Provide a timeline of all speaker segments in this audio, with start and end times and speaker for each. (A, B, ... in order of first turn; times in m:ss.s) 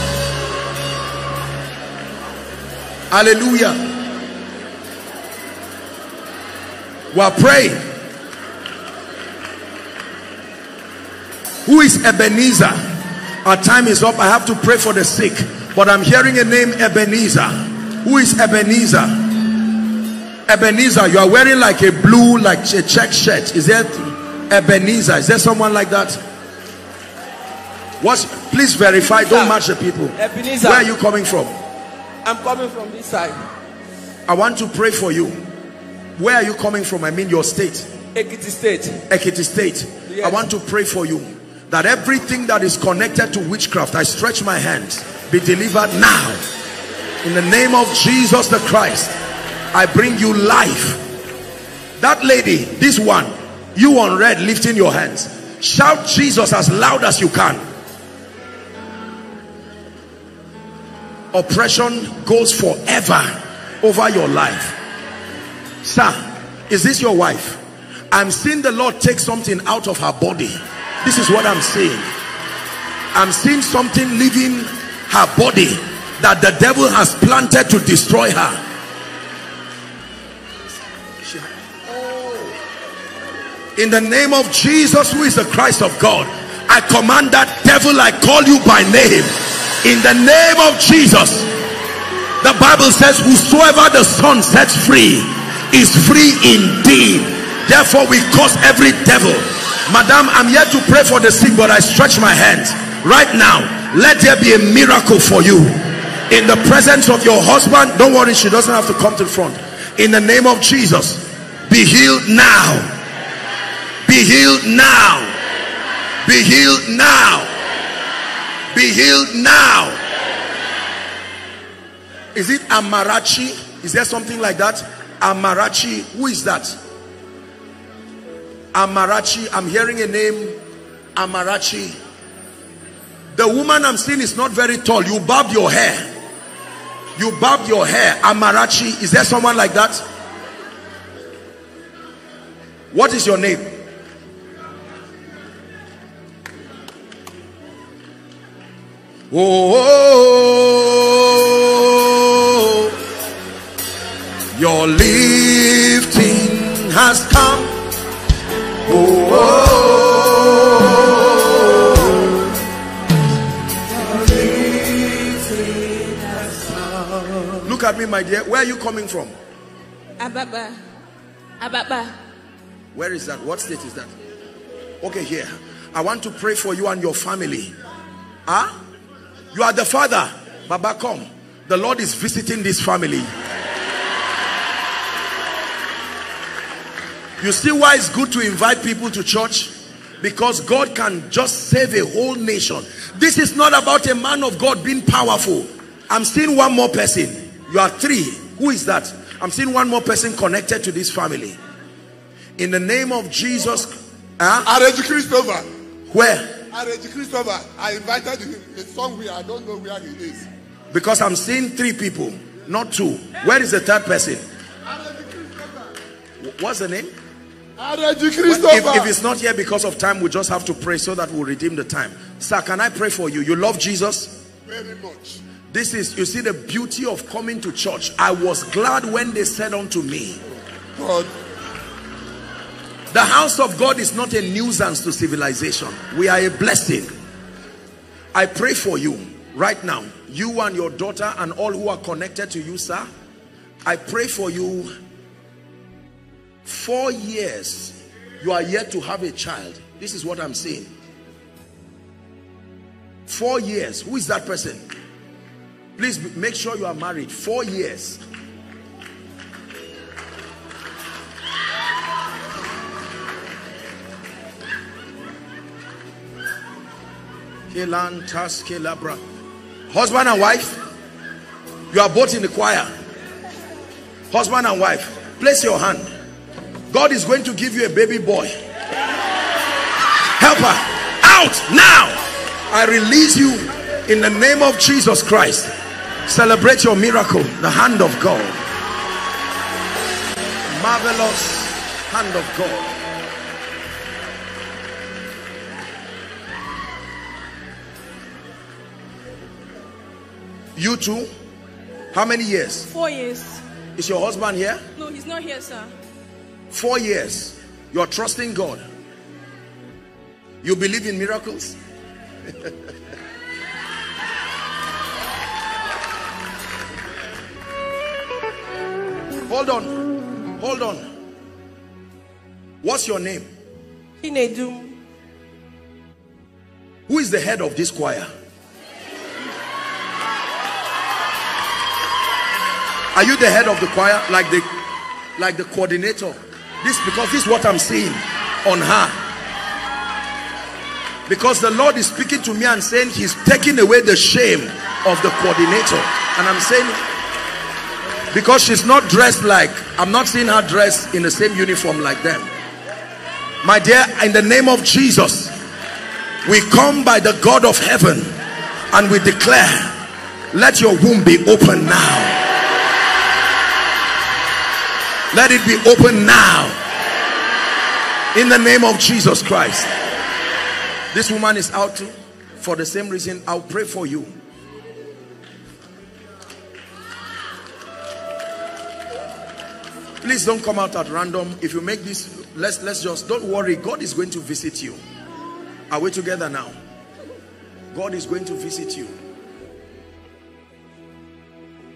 0:03.1-0:03.9 A
0:07.1-0:07.8 A
0:11.6-0:19.4 A
0:20.5-0:26.2 A
0:28.0-0:31.5 A
0:29.2-0:29.6 B
0:30.2-0:30.9 B
0:32.2-0:33.4 B
0:34.3-0:35.4 A
0:36.2-0:37.9 A
0:38.1-0:39.0 B
0:39.1-0:46.5 A
0:40.1-0:40.4 B
0:47.2-0:49.2 A
0:49.7-0:51.0 A
0:52.0-0:57.6 A
1:01.3-1:04.8 A
1:05.8-1:12.1 A
1:13.1-1:18.6 A
1:21.2-1:22.5 A
1:23.8-1:31.5 A
1:32.4-1:52.9 A
1:54.0-1:55.3 A
1:56.2-1:57.5 A
1:58.7-2:00.0 A
2:02.3-2:06.8 A
2:08.7-2:10.6 A
2:11.2-2:12.0 A
2:13.3-2:16.1 A
2:17.2-2:20.0 A
2:22.9-2:23.8 A
2:29.3-2:32.9 A
2:34.6-2:37.8 A
2:38.9-2:41.8 A
2:44.2-2:44.9 B
2:47.0-2:47.3 B
2:47.6-2:49.4 A
2:50.2-2:50.8 C
2:51.6-2:52.1 C
2:52.9-2:54.2 A
2:55.0-2:57.8 A
2:58.5-2:58.8 A
2:59.5-3:03.3 A
3:07.4-3:21.6 A
3:22.6-3:24.7 A
3:24.6-3:25.7 D
3:26.1-3:26.5 A
3:26.7-3:30.5 D
3:30.9-3:34.4 A
3:34.9-3:35.9 D
3:36.4-3:37.1 A
3:37.8-3:39.1 D
3:38.5-3:44.4 A
3:44.7-3:45.4 D
3:45.7-3:50.4 A
3:51.0-3:51.3 D
3:53.1-3:57.1 A
3:58.3-4:03.1 A
4:03.8-4:04.9 A
4:06.6-4:10.9 A
4:13.3-4:14.9 A
4:16.0-4:18.2 A
4:27.7-4:29.2 A
4:29.9-4:30.8 A
4:31.9-4:32.9 A
4:34.3-4:36.1 A
4:36.9-4:38.6 A
4:40.4-4:42.2 A
4:42.7-4:45.7 A
4:46.3-4:48.6 A
4:50.7-4:52.9 A
5:00.8-5:01.3 A
5:02.1-5:02.9 A
5:02.9-5:03.6 C
5:04.0-5:04.8 A
5:05.0-5:05.9 C
5:06.7-5:08.8 A
5:10.6-5:11.8 A
5:19.5-5:20.0 A
5:20.6-5:21.1 A
5:22.8-5:23.5 A
5:24.2-5:24.9 C
5:27.1-5:28.3 A
5:33.2-5:34.7 A
5:35.4-5:39.2 A
5:41.3-5:47.0 A
5:48.3-5:52.5 A
5:53.6-5:55.6 A
5:56.4-5:58.4 A
5:58.9-6:00.0 A
6:00.5-6:02.4 A
6:05.3-6:06.8 A
6:08.3-6:09.9 A
6:11.1-6:14.3 A
6:20.2-6:25.0 A
6:25.9-6:26.8 A
6:27.9-6:29.1 A